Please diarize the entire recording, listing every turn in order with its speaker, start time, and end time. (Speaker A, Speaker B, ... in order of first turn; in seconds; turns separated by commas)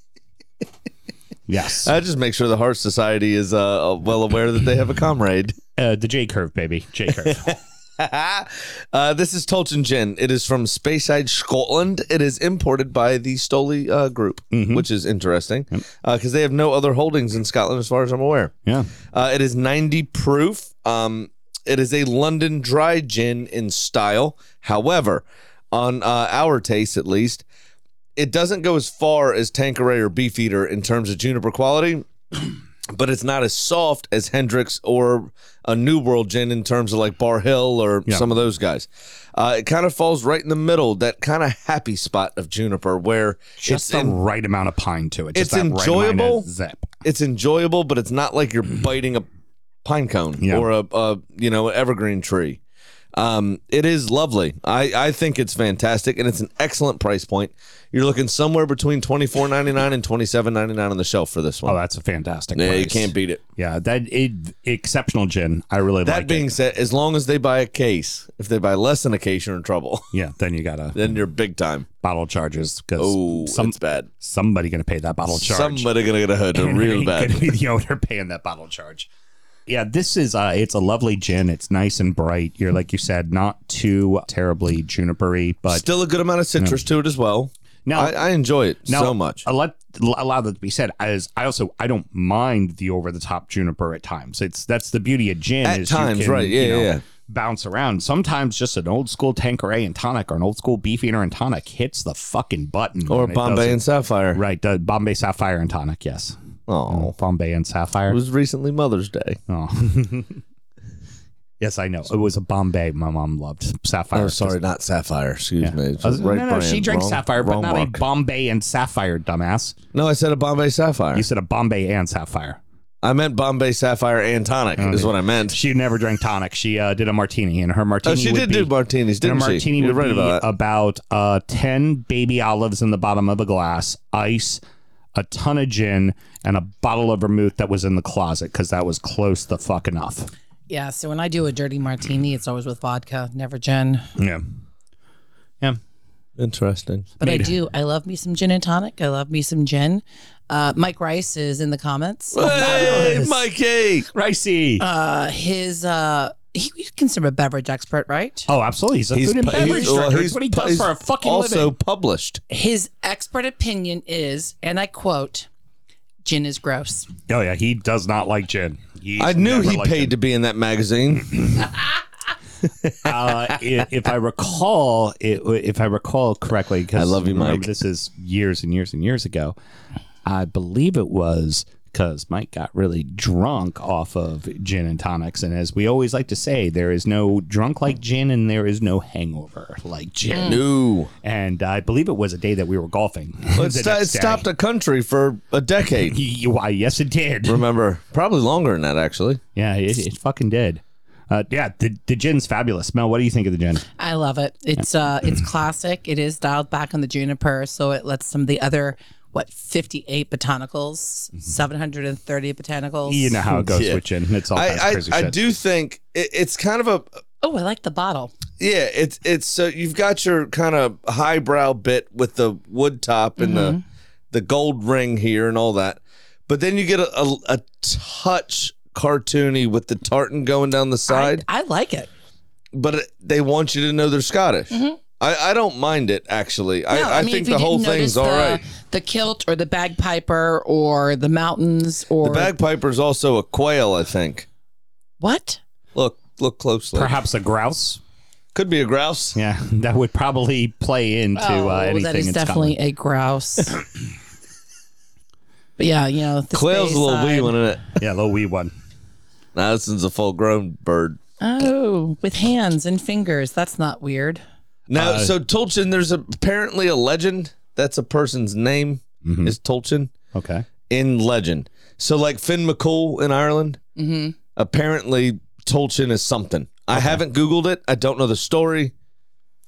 Speaker A: 1.5-1.9, Speaker B: 1.8-5.5, Speaker A: 5.8-7.5, Speaker B: 7.1-18.5, Speaker A: 14.5-14.9, Speaker B: 19.1-27.4, Speaker B: 28.2-32.1, Speaker B: 32.9-44.2, Speaker A: 43.6-46.9, Speaker B: 45.3-46.5, Speaker B: 47.0-49.3, Speaker B: 49.8-52.6, Speaker A: 50.4-50.7, Speaker B: 53.1-61.8, Speaker A: 61.7-66.5, Speaker B: 62.5-63.4, Speaker B: 66.0-70.1, Speaker A: 70.1-71.1, Speaker B: 70.9-71.9, Speaker A: 72.0-75.9, Speaker B: 73.0-74.1, Speaker B: 75.3-77.5, Speaker A: 76.5-79.1, Speaker A: 79.7-85.9, Speaker B: 85.7-89.4, Speaker A: 87.9-88.2, Speaker A: 88.9-103.8, Speaker B: 95.6-97.0, Speaker B: 103.1-104.4, Speaker A: 104.3-106.4, Speaker B: 106.7-107.1, Speaker A: 106.9-108.2, Speaker B: 108.1-109.4, Speaker A: 109.5-110.4, Speaker A: 111.6-114.6, Speaker B: 114.1-118.0, Speaker A: 115.6-119.8, Speaker B: 119.9-121.2, Speaker A: 121.1-122.6, Speaker B: 123.0-125.6, Speaker A: 124.8-134.6, Speaker B: 128.0-130.5, Speaker A: 135.2-140.3, Speaker C: 140.7-144.1, Speaker A: 144.2-144.4, Speaker B: 146.4-147.1, Speaker C: 147.2-153.3, Speaker A: 147.2-147.5, Speaker B: 152.3-154.1, Speaker A: 152.4-153.4, Speaker A: 154.1-154.8, Speaker C: 154.8-158.5, Speaker A: 158.5-161.7, Speaker B: 159.1-162.4, Speaker C: 162.5-165.5, Speaker C: 166.2-167.1, Speaker A: 167.3-170.1, Speaker B: 169.2-171.7, Speaker B: 172.8-173.6, Speaker A: 173.0-179.6, Speaker B: 177.0-177.7, Speaker A: 180.2-190.6, Speaker C: 190.3-190.6, Speaker B: 190.4-191.1, Speaker A: 191.2-194.5, Speaker B: 193.5-196.2, Speaker A: 196.1-197.6, Speaker B: 197.4-199.4, Speaker A: 199.6-203.9, Speaker C: 204.0-213.4, Speaker A: 213.1-215.4, Speaker B: 213.6-217.1, Speaker C: 217.4-218.3, Speaker B: 218.6-223.8, Speaker C: 223.4-223.8, Speaker B: 224.3-231.4, Speaker C: 231.1-232.1, Speaker B: 232.7-238.6, Speaker C: 234.7-235.0, Speaker C: 236.9-242.5, Speaker B: 242.2-244.5, Speaker C: 245.2-245.6, Speaker B: 245.9-247.2, Speaker A: 246.9-248.0, Speaker B: 248.5-249.4, Speaker A: 249.4-252.8, Speaker C: 251.4-253.8, Speaker C: 255.8-257.5, Speaker B: 256.5-258.0, Speaker A: 258.0-258.7, Speaker B: 259.6-261.2, Speaker C: 261.4-264.4, Speaker B: 264.9-270.1, Speaker A: 264.9-265.3, Speaker A: 269.2-269.6, Speaker A: 270.3-270.7, Speaker B: 270.9-273.8, Speaker C: 274.0-274.4, Speaker B: 274.6-278.9, Speaker A: 276.9-277.2